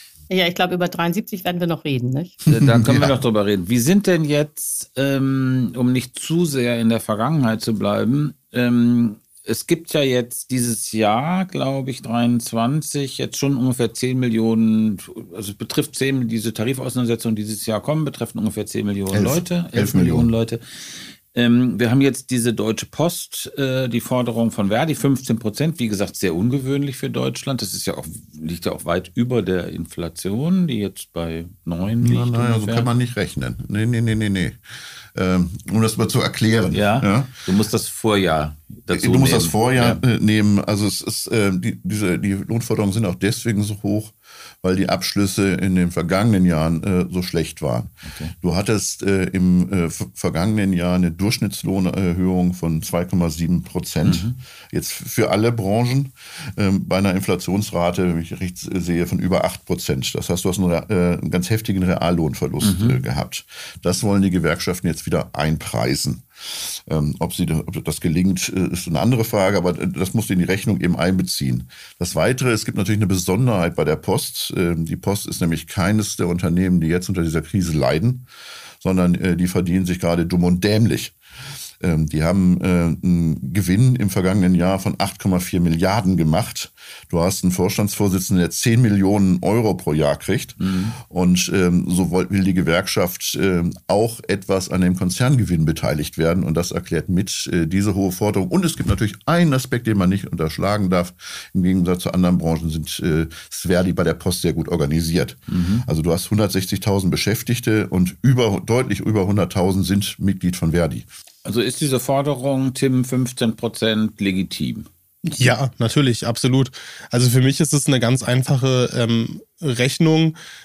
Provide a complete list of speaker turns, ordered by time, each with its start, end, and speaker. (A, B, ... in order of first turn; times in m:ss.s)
0:00.3-0:02.4 A
0:02.5-0:03.2 B
0:02.5-0:32.9 C
0:19.1-0:20.3 B
0:32.0-0:34.6 B
0:35.1-0:37.3 B
0:36.7-0:40.0 C
0:38.9-1:18.3 B
0:48.1-0:48.3 C
0:54.0-0:54.4 C
1:02.6-1:03.0 C
1:18.8-1:21.2 B
1:21.8-1:51.1 B
1:30.6-1:31.0 C
1:45.5-1:45.9 C
1:51.4-1:54.9 C
1:55.2-2:00.4 D